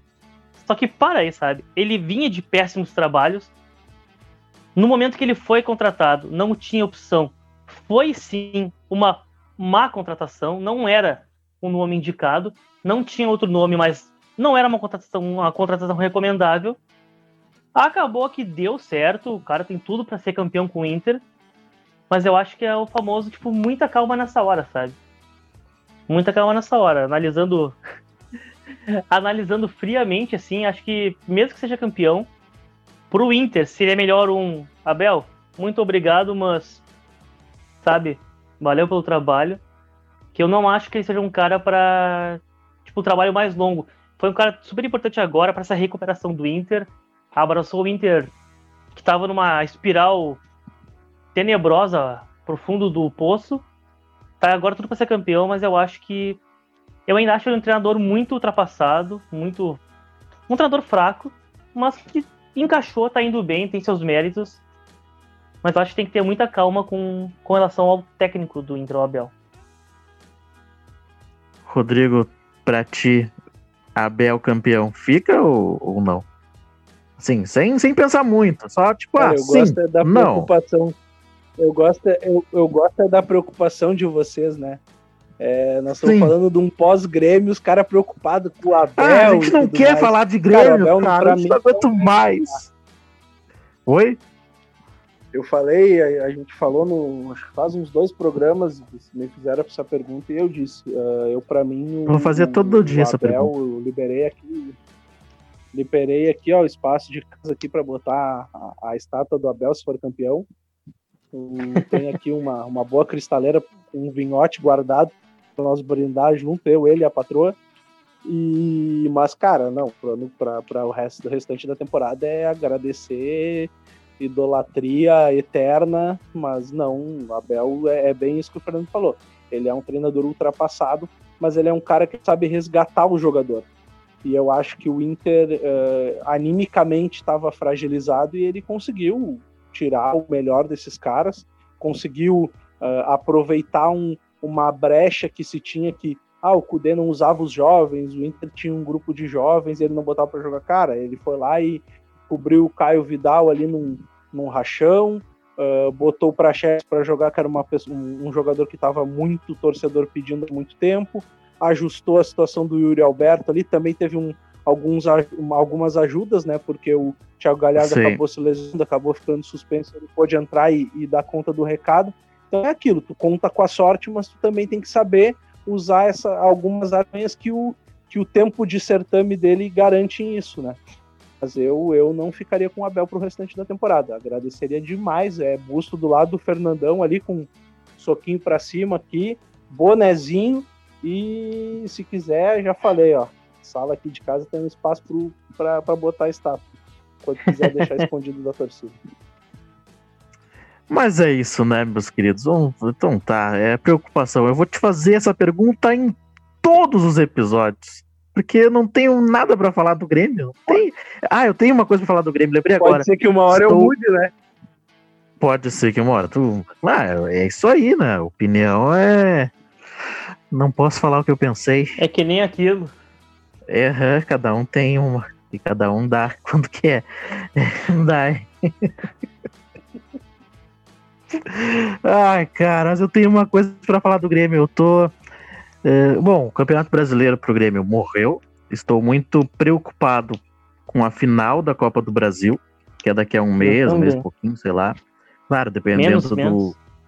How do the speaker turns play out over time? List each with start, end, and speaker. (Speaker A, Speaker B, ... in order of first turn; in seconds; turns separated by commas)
Speaker A: 0.6-3.5, Speaker A: 4.7-16.8, Speaker A: 17.7-21.2, Speaker A: 22.1-25.0, Speaker A: 26.1-27.8, Speaker A: 29.1-32.3, Speaker A: 33.1-36.8, Speaker A: 37.8-39.6, Speaker A: 40.3-48.3, Speaker A: 48.9-50.4, Speaker A: 51.3-53.6, Speaker A: 54.4-56.4, Speaker A: 57.1-59.8, Speaker A: 60.5-64.6, Speaker A: 65.6-69.3, Speaker B: 71.7-73.3, Speaker B: 74.0-76.2, Speaker B: 77.2-80.5, Speaker C: 79.2-80.9, Speaker C: 81.6-84.8, Speaker C: 85.4-92.2, Speaker B: 86.0-86.3, Speaker B: 89.0-92.7, Speaker B: 93.8-94.2, Speaker C: 95.3-104.8, Speaker B: 102.1-103.5, Speaker C: 105.7-110.5, Speaker C: 111.3-117.5, Speaker C: 118.2-133.7, Speaker C: 134.2-180.8, Speaker B: 167.8-168.2, Speaker C: 181.4-196.6, Speaker C: 197.2-198.9, Speaker A: 197.5-198.0, Speaker B: 200.9-213.9, Speaker C: 212.8-214.3, Speaker B: 215.4-219.5, Speaker B: 220.5-221.9, Speaker A: 222.0-222.9, Speaker B: 223.7-228.9, Speaker B: 231.3-235.1, Speaker B: 235.8-245.0, Speaker A: 243.6-244.2, Speaker B: 245.5-246.7, Speaker A: 245.9-246.7